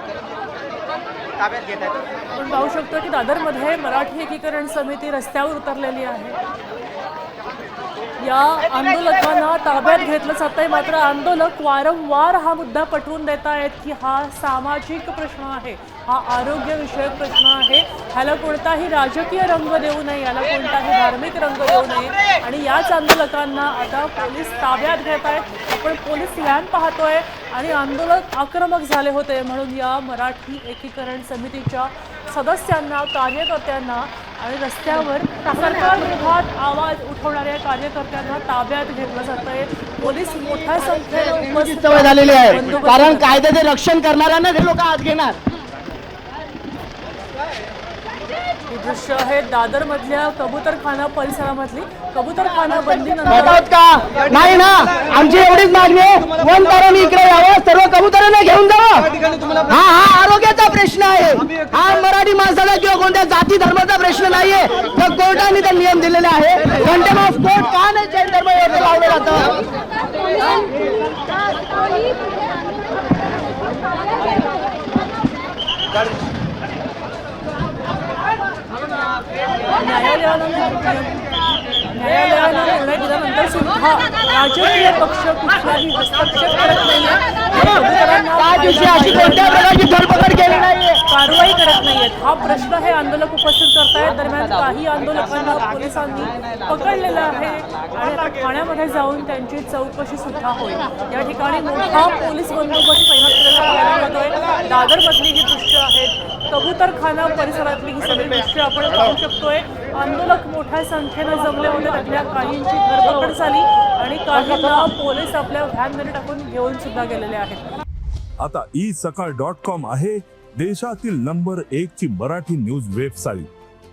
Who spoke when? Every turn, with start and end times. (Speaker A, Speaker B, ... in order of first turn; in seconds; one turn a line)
Speaker A: 2.4-6.4
Speaker A: 8.2-43.3
Speaker B: 41.4-45.4
Speaker A: 48.7-53.6
Speaker B: 53.3-69.6
Speaker A: 79.7-81.2
Speaker A: 81.9-89.7
Speaker B: 88.4-91.0
Speaker A: 91.1-117.7
Speaker C: 118.4-123.5